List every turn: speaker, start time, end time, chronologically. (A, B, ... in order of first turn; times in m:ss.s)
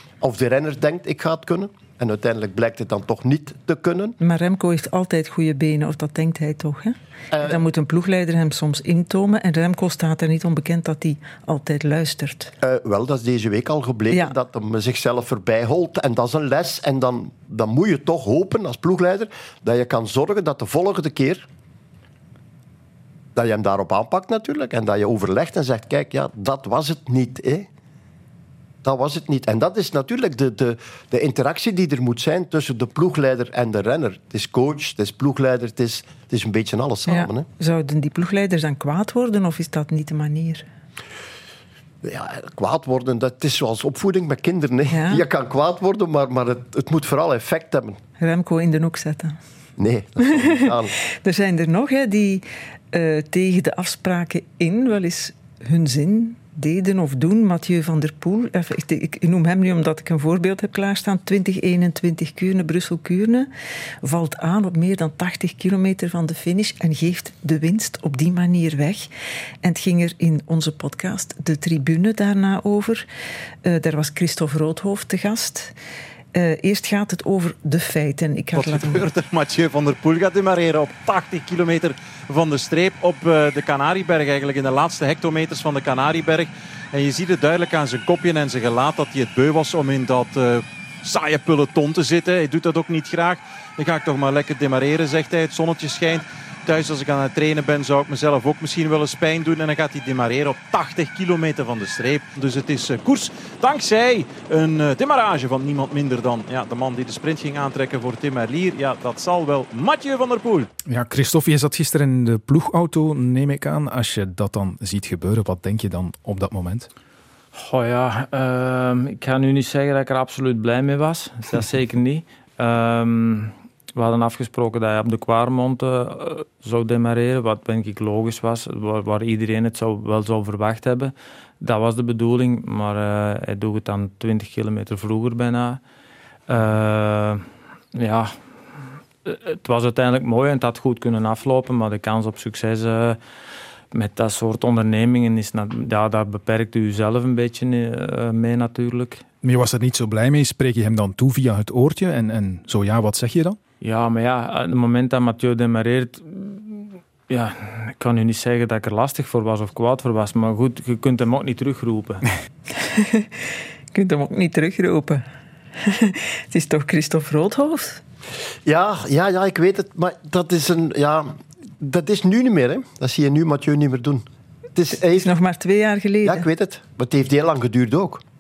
0:00.2-0:04.2 A
0:04.2-0:12.5 B
0:07.3-0:07.6 A
0:12.6-0:21.4 A
0:23.3-0:27.7 A
0:28.8-0:37.5 A
0:37.1-0:40.6 B
0:42.0-0:48.0 A
0:44.9-0:45.2 B
0:48.2-0:49.4 B
0:49.8-0:50.9 A
0:50.2-1:03.5 B
1:04.0-1:09.1 B
1:09.6-1:13.0 B
1:13.6-1:15.7 B
1:16.3-1:19.1 B
1:18.5-1:50.7 C
1:50.9-1:56.8 D
1:57.5-2:15.8 E
2:16.5-2:18.4 E
2:19.2-2:23.2 E
2:23.9-2:29.3 E
2:29.4-2:33.6 D
2:33.8-2:42.2 E
2:42.8-2:43.3 B
2:43.9-2:45.2 B
2:45.8-2:48.0 B
2:48.6-2:55.3 A
2:54.9-2:56.4 B
2:56.2-2:58.2 A